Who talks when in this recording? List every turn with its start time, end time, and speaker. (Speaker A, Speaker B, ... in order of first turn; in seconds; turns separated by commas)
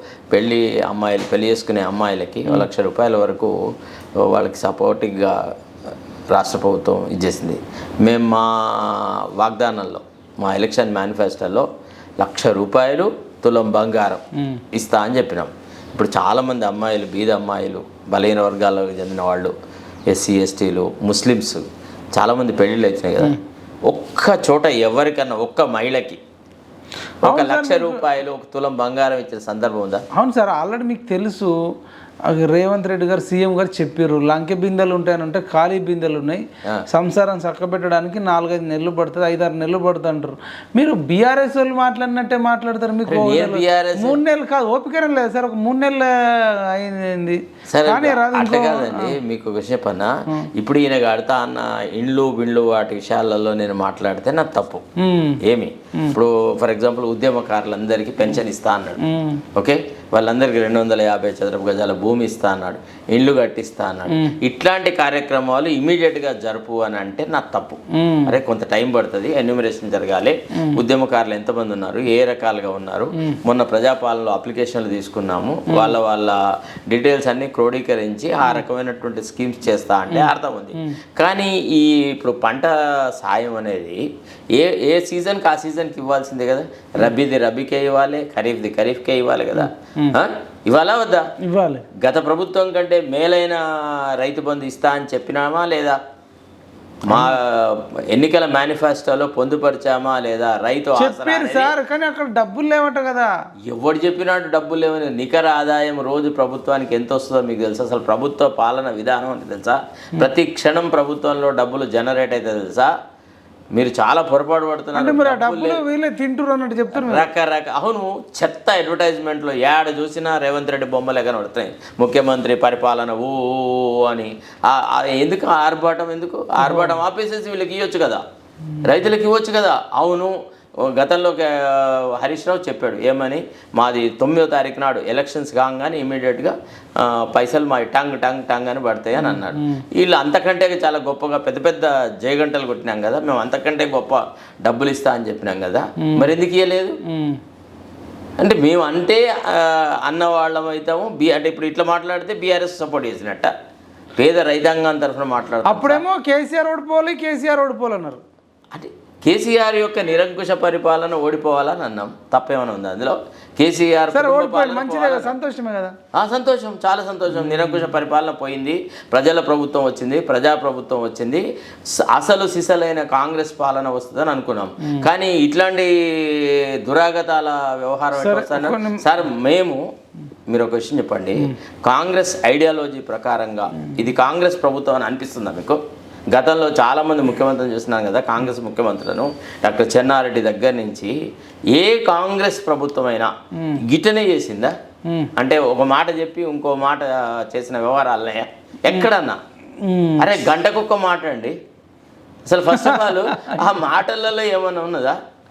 Speaker A: 0.3-3.5, Speaker A: 4.2-5.5, Speaker A: 6.3-11.7, Speaker A: 12.2-19.5, Speaker B: 14.4-14.6, Speaker A: 20.1-26.2, Speaker A: 27.2-30.0, Speaker B: 27.2-28.0, Speaker B: 30.1-31.6, Speaker B: 32.3-49.2, Speaker A: 43.1-44.2, Speaker A: 47.7-54.8, Speaker B: 55.0-55.4, Speaker A: 55.4-59.0, Speaker B: 59.0-59.4, Speaker A: 59.5-84.0, Speaker B: 64.1-64.4, Speaker B: 67.9-68.4, Speaker B: 75.7-76.0, Speaker B: 80.1-80.9, Speaker A: 84.6-91.2, Speaker B: 89.5-90.2, Speaker B: 91.5-91.9, Speaker A: 92.0-96.0, Speaker A: 97.1-101.7, Speaker B: 97.1-97.4, Speaker B: 101.0-103.3, Speaker A: 103.7-112.9, Speaker A: 113.8-115.8, Speaker B: 115.0-117.2, Speaker A: 116.9-128.2, Speaker B: 126.6-127.0, Speaker A: 128.8-147.0, Speaker B: 139.2-139.8, Speaker B: 146.0-146.3, Speaker B: 147.1-147.4, Speaker A: 148.4-153.5, Speaker A: 154.2-156.0, Speaker B: 155.6-158.2, Speaker A: 158.7-165.3, Speaker B: 164.1-165.9, Speaker A: 166.1-179.8, Speaker B: 167.3-167.8, Speaker B: 178.1-179.1, Speaker A: 180.5-185.8, Speaker A: 186.3-191.1, Speaker A: 191.7-194.7, Speaker B: 193.6-193.8, Speaker A: 195.4-199.4, Speaker B: 199.8-200.3, Speaker A: 200.2-201.6, Speaker A: 202.5-205.2, Speaker B: 202.7-203.7